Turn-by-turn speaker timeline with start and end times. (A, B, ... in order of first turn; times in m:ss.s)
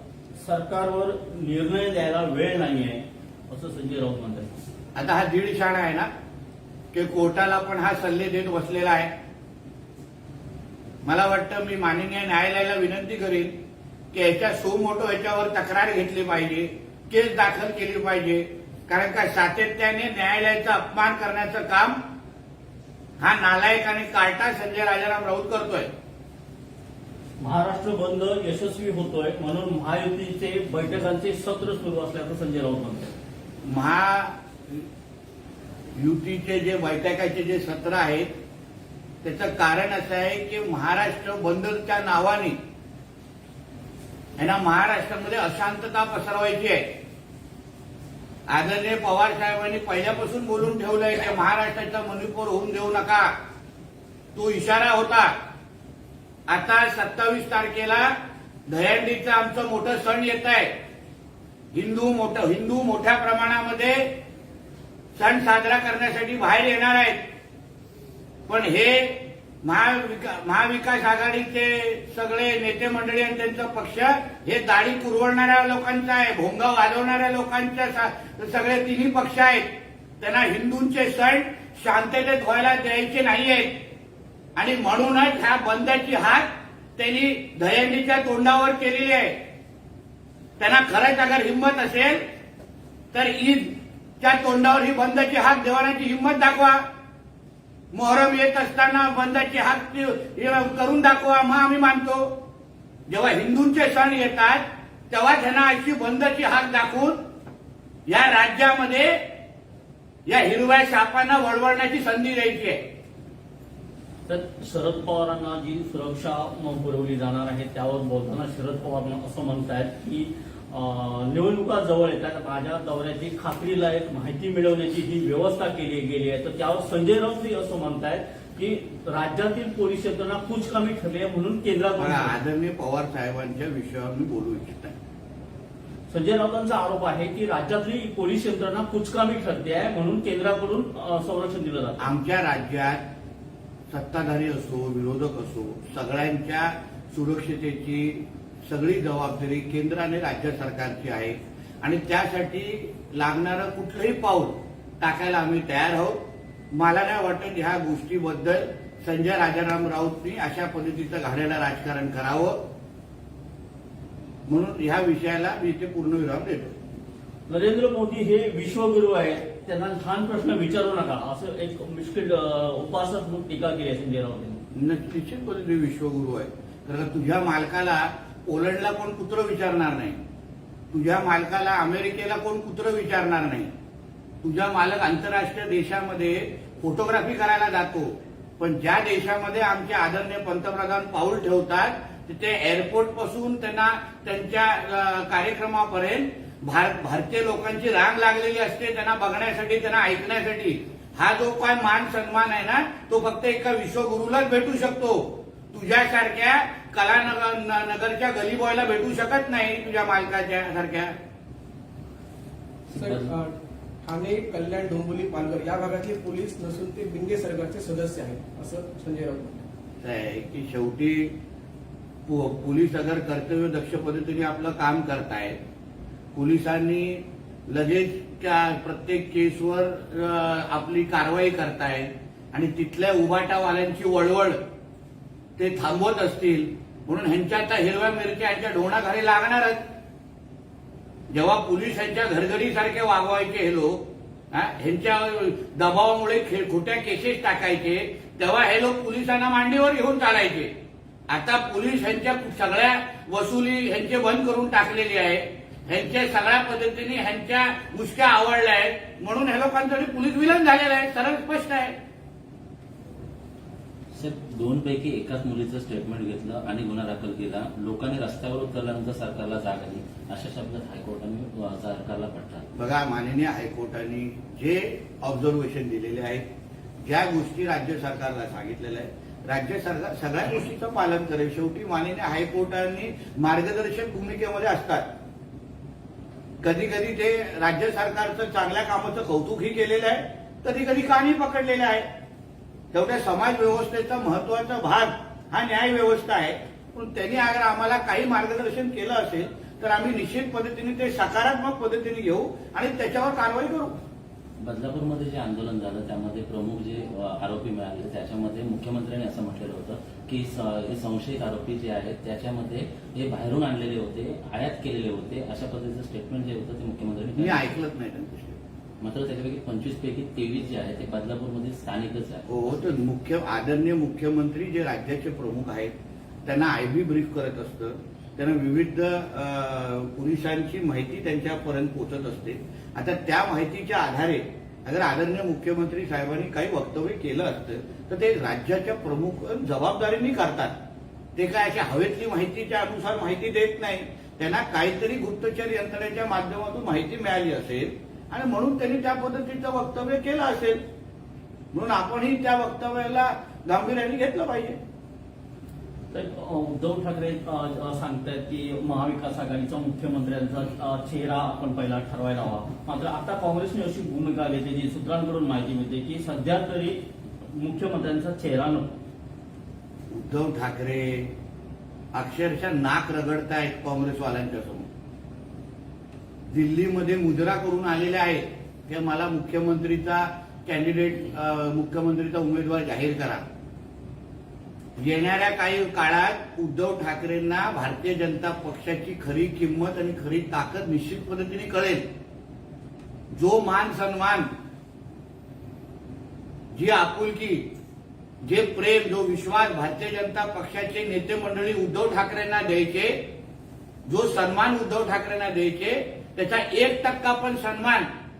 0:00.4-0:04.5 A
0:04.9-0:06.1 B
0:06.9-0:09.1 B
0:11.0-0:13.5 B
0:14.1-0:22.0 B
0:23.2-0:25.9 B
0:27.4-0:33.1 A
0:33.6-0:34.3 B
0:36.0-0:38.3 B
0:39.2-0:42.6 B
0:44.4-0:46.9 B
0:48.5-0:53.3 B
0:54.3-0:55.3 B
0:56.5-0:58.1 B
0:58.7-1:00.7 B
1:01.7-1:04.1 B
1:05.2-1:07.2 B
1:08.5-1:23.8 B
1:24.6-1:29.3 B
1:30.6-1:32.2 B
1:33.1-1:36.8 B
1:37.9-1:42.3 B
1:43.1-1:47.2 B
1:48.1-1:49.1 B
1:50.3-1:52.8 B
1:54.2-2:12.4 A
2:12.0-2:15.0 B
2:16.1-2:22.1 A
2:22.0-2:23.0 B
2:23.9-2:36.2 B
2:36.7-2:42.6 B
2:44.5-2:46.8 B
2:47.5-2:54.6 A
2:54.7-3:00.2 B
3:00.9-3:03.7 B
3:04.4-3:25.2 B
3:25.7-3:31.1 B
3:32.9-3:33.5 C
3:33.0-3:33.4 D
3:34.0-3:39.6 C
3:40.0-3:41.3 B
3:42.3-3:45.6 B
3:46.3-3:54.6 B
3:55.6-3:59.8 B
4:01.3-4:10.7 B
4:11.3-4:21.9 B
4:24.2-4:32.7 D
4:32.8-4:36.4 B
4:37.0-4:45.0 B
4:46.6-4:52.0 B
4:52.9-5:04.0 B
5:04.6-5:17.7 D
5:17.3-5:18.6 B
5:19.0-5:22.9 D
5:22.5-5:25.9 B
5:26.4-5:40.7 B
5:41.4-5:50.8 B
5:51.7-5:54.8 B
5:56.1-6:07.0 A
6:07.5-6:09.0 A
6:10.1-6:11.3 B
6:12.1-6:14.9 B
6:16.5-6:23.4 B
6:25.0-6:32.0 B
6:33.3-6:34.5 B
6:36.7-6:37.7 B
6:38.4-6:43.2 B
6:44.1-6:48.1 B